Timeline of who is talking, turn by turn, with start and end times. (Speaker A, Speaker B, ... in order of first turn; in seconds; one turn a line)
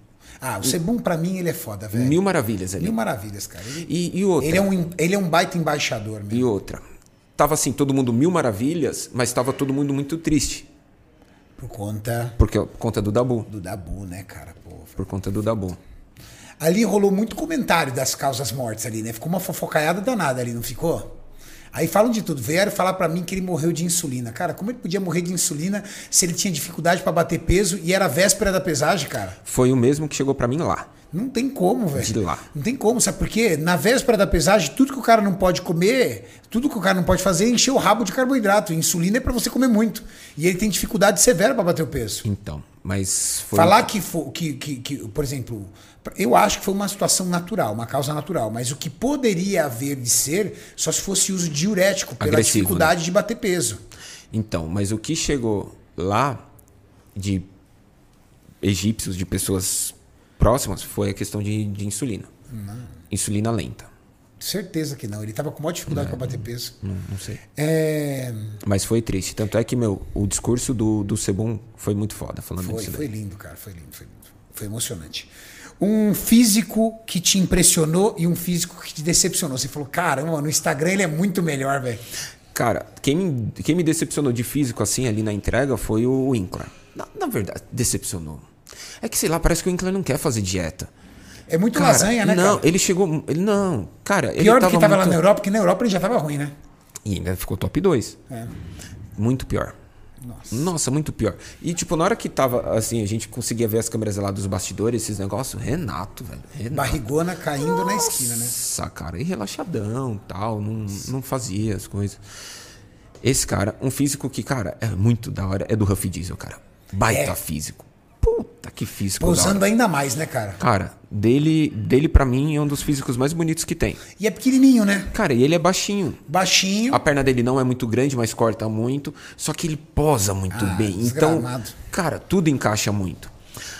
Speaker A: 0.4-2.2
Speaker B: 1.9-2.9
Speaker A: 2.8-6.5
Speaker B: 3.8-4.7
Speaker B: 6.3-6.8
Speaker B: 7.4-10.7
Speaker A: 11.6-12.4
Speaker B: 12.4-13.5
Speaker A: 13.5-15.0
Speaker B: 15.0-15.8
Speaker A: 16.6-21.1
Speaker A: 21.7-29.4
Speaker B: 29.4-30.9
Speaker A: 31.1-42.2
Speaker B: 31.9-32.4
Speaker B: 42.2-43.8
Speaker A: 43.5-53.8
Speaker B: 52.2-52.9
Speaker B: 54.3-56.4
Speaker B: 57.1-57.5
Speaker B: 58.6-62.3
Speaker A: 62.5-62.9
Speaker B: 63.1-63.9
Speaker A: 64.4-66.7
Speaker B: 65.9-67.4
Speaker A: 67.5-68.6
Speaker B: 68.6-73.1
Speaker A: 72.6-82.0
Speaker B: 82.5-88.5
Speaker B: 89.0-90.9
Speaker A: 91.5-92.7
Speaker B: 91.7-95.2
Speaker A: 94.4-96.5
Speaker B: 97.0-98.2
Speaker B: 99.2-99.8
Speaker A: 100.2-100.7
Speaker B: 100.5-112.2
Speaker A: 106.7-108.5
Speaker B: 113.2-119.6
Speaker A: 117.1-117.3
Speaker A: 119.2-120.6
Speaker B: 120.6-124.0
Speaker A: 124.2-125.1
Speaker B: 125.1-126.2
Speaker A: 126.3-127.0
Speaker B: 126.9-133.3
Speaker A: 130.5-131.8